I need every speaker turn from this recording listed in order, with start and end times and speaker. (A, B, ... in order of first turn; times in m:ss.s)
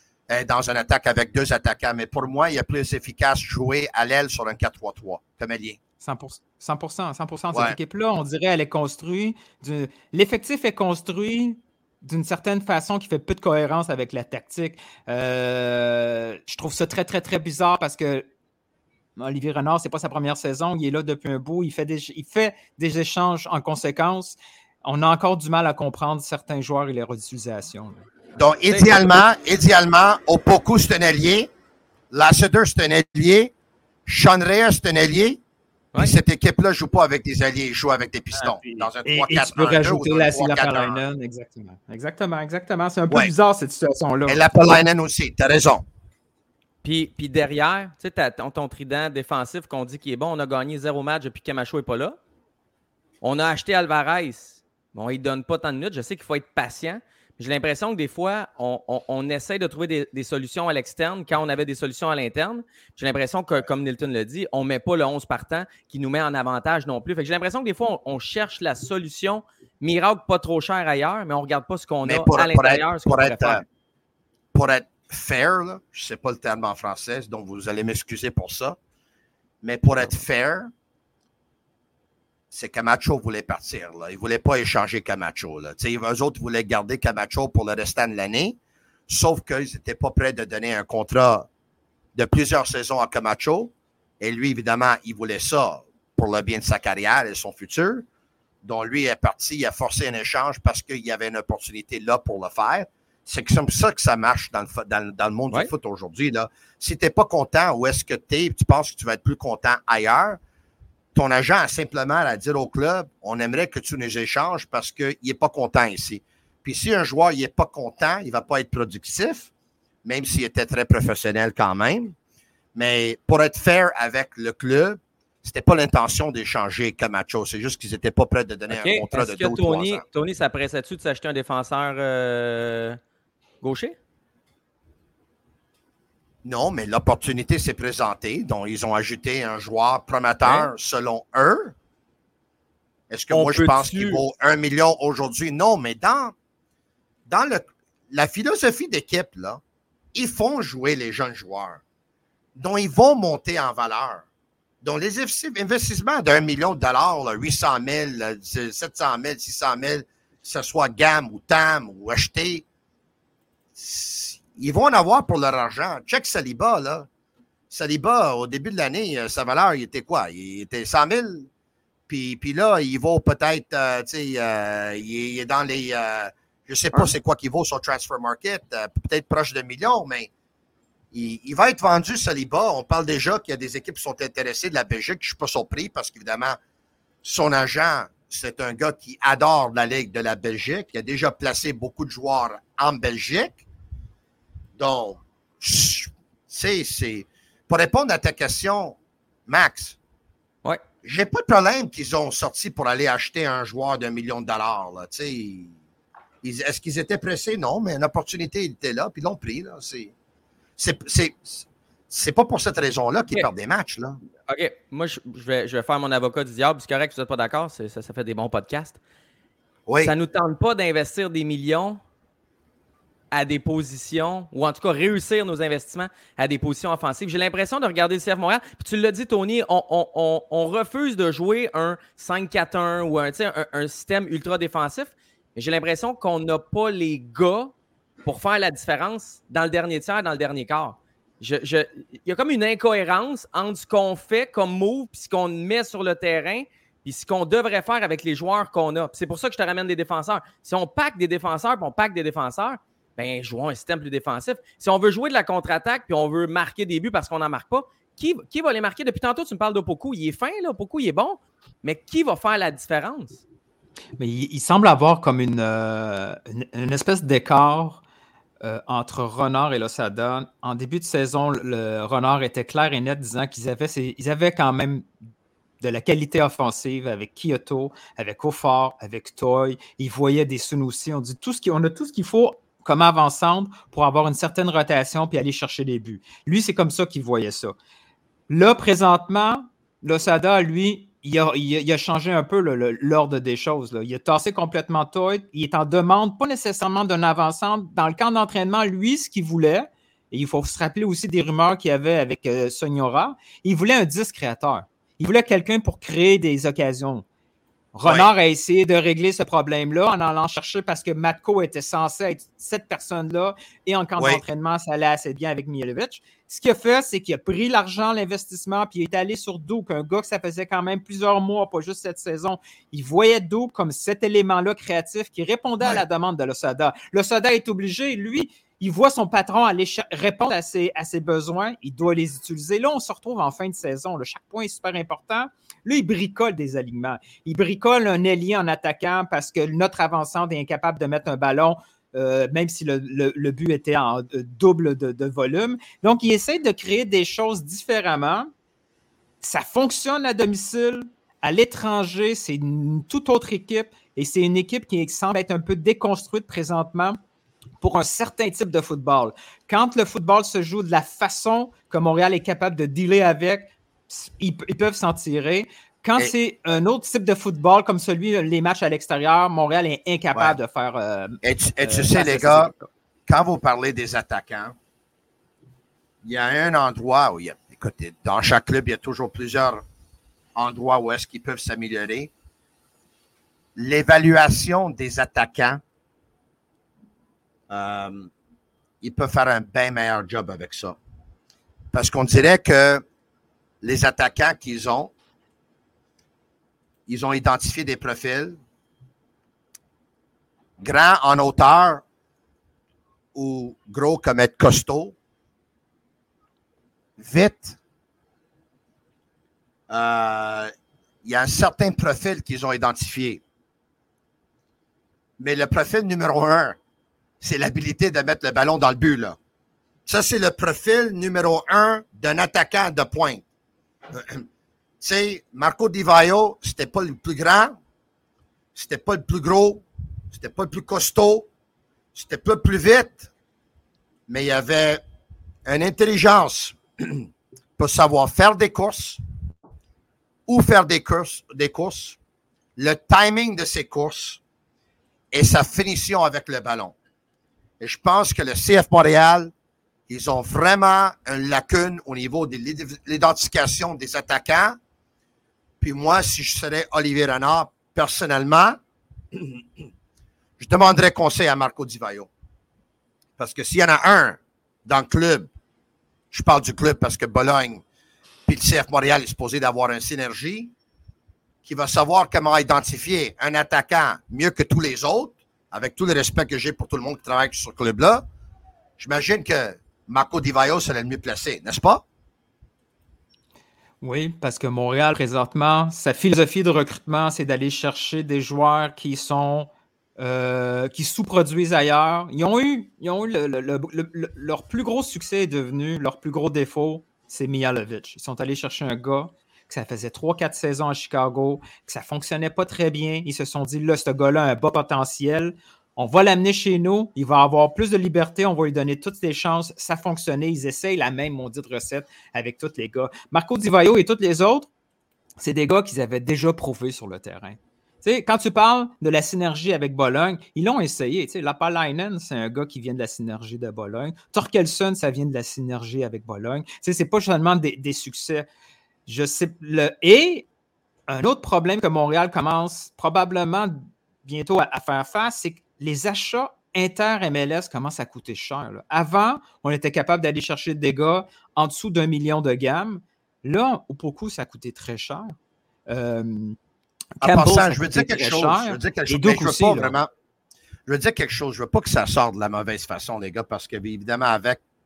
0:00.3-0:05.8 A
0:06.0-0:18.3 B
0:19.2-0:28.0 B
0:28.4-0:31.5 A
0:28.7-0:29.2 C
0:32.1-0:33.5 A
0:34.1-0:35.4 A
0:36.0-0:41.0 A
0:38.4-0:44.5 B
0:44.3-0:45.8 A
0:46.8-0:52.2 C
0:53.2-1:13.6 C
1:12.0-1:13.6 A
1:14.5-1:18.8 A
1:19.6-1:20.7 A
1:22.5-1:28.6 A
1:29.1-1:31.5 A
1:32.2-1:38.0 A
1:38.6-1:50.4 A
1:51.1-1:59.5 A
2:00.0-2:02.2 A
2:02.8-2:10.0 A
2:08.7-2:13.0 C
2:13.6-2:14.0 C
2:16.4-2:21.7 A
2:20.4-2:20.7 C
2:23.1-2:26.3 A
2:23.3-2:24.2 C
2:27.3-2:29.6 A
2:30.1-2:31.8 A
2:32.6-2:34.2 A
2:34.8-2:42.6 A
2:43.8-2:47.1 A
2:47.7-2:51.5 A
2:52.1-3:00.3 A
3:01.1-3:06.6 A
3:07.2-3:13.6 A
3:14.8-3:20.0 A
3:21.0-3:25.7 A
3:26.4-3:30.1 A
3:30.8-3:34.2 A
3:34.5-3:39.0 C
3:39.9-3:40.1 A
3:40.0-3:42.0 C
3:43.3-3:57.7 C
3:58.2-4:23.4 C
4:24.2-4:28.0 B
4:28.6-4:35.1 B
4:35.8-4:47.8 B
4:48.5-5:07.2 B
5:07.9-5:48.5 B
5:49.4-5:57.2 B
5:57.8-6:12.9 B
6:11.4-6:12.7 A
6:13.3-6:14.8 A
6:16.2-6:19.8 A
6:20.6-6:22.3 A
6:23.8-6:25.8 A
6:27.7-6:28.3 A
6:29.0-6:31.0 A
6:31.9-6:33.0 A
6:33.8-6:35.1 A
6:37.1-6:38.6 A
6:40.8-6:42.0 A
6:43.4-6:45.2 A
6:47.2-6:47.8 A
6:49.9-6:50.7 A
6:51.2-6:53.4 A
6:55.4-6:56.8 A
6:57.4-6:59.4 A
7:00.1-7:03.4 A
7:04.1-7:04.5 A
7:05.0-7:07.8 A
7:08.8-7:11.5 A
7:12.1-7:13.3 A
7:14.3-7:15.0 A
7:15.7-7:17.3 A
7:17.8-7:19.2 A
7:20.5-7:22.2 A
7:22.8-7:24.4 A
7:25.3-7:27.0 A
7:27.8-7:29.5 A
7:30.1-7:34.8 A
7:35.8-7:38.8 A
7:39.4-7:39.6 A
7:40.6-7:42.3 A
7:43.4-7:45.5 A
7:46.3-7:47.8 A
7:48.5-7:50.7 A
7:51.6-7:58.2 A
7:59.0-8:02.0 A
8:04.0-8:34.7 B
8:35.4-8:48.5 B
8:49.1-8:50.4 B
8:51.1-9:05.4 B
9:05.9-9:06.6 B
9:07.2-9:10.0 B
9:07.2-9:10.1 A
9:10.9-9:14.6 A